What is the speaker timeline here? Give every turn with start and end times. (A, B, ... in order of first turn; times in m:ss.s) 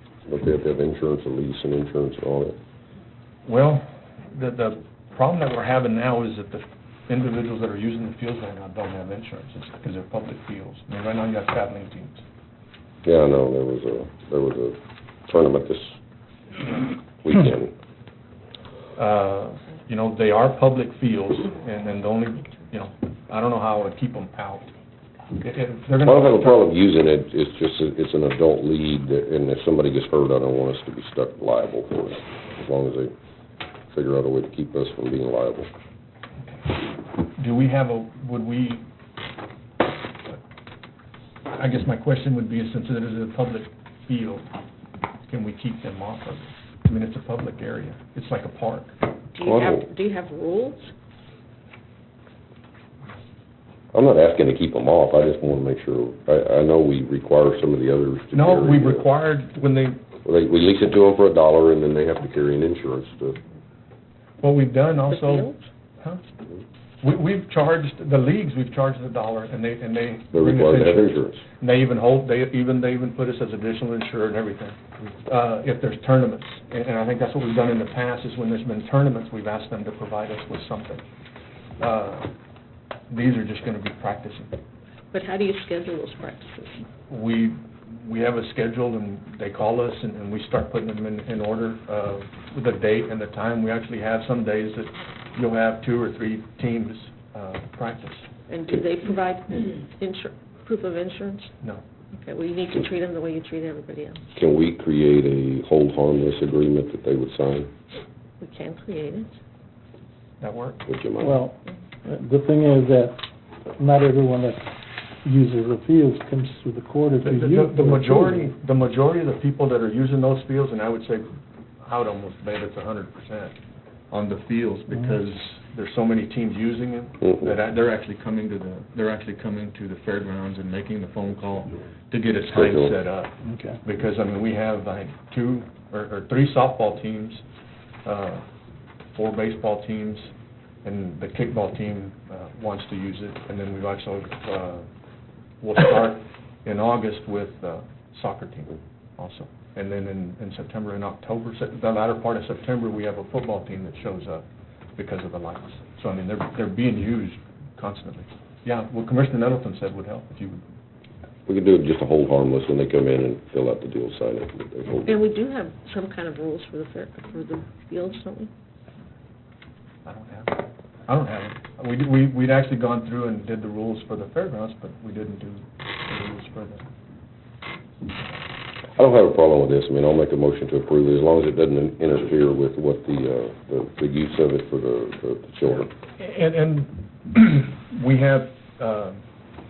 0:00.2-0:02.6 A
0:03.4-0:12.2 B
0:13.0-0:14.8 A
0:15.3-0:16.0 A
0:16.7-0:17.7 A
0:19.0-0:24.7 B
0:25.4-0:26.7 B
0:26.0-0:33.1 A
0:33.9-0:35.7 A
0:37.4-0:38.8 B
0:41.6-0:44.5 B
0:45.3-0:48.9 B
0:49.3-0:50.9 C
0:49.4-0:49.9 A
0:53.9-0:59.1 A
0:58.3-1:00.0 B
1:00.2-1:03.4 A
1:04.4-1:06.2 B
1:05.1-1:05.7 C
1:07.0-1:21.0 B
1:10.3-1:11.4 A
1:21.8-1:22.3 B
1:23.1-1:24.5 B
1:25.1-1:26.8 C
1:27.1-1:38.2 B
1:38.5-1:41.5 C
1:42.1-1:44.2 C
1:44.3-1:47.7 A
1:48.4-1:49.4 C
1:50.4-1:50.8 B
1:50.9-1:51.4 A
1:51.2-1:53.2 D
1:53.7-1:58.5 D
1:57.2-2:01.3 B
2:01.8-2:03.5 B
2:04.1-2:17.4 B
2:07.2-2:07.5 A
2:12.5-2:12.9 A
2:13.4-2:13.8 D
2:18.0-2:18.4 B
2:19.1-2:20.3 B
2:20.8-2:24.9 B
2:25.6-2:34.4 B
2:35.0-2:40.6 B
2:41.5-2:45.2 A
2:45.0-2:48.5 C
2:50.0-2:56.9 B
2:59.0-3:05.9 A
3:05.9-3:09.2 B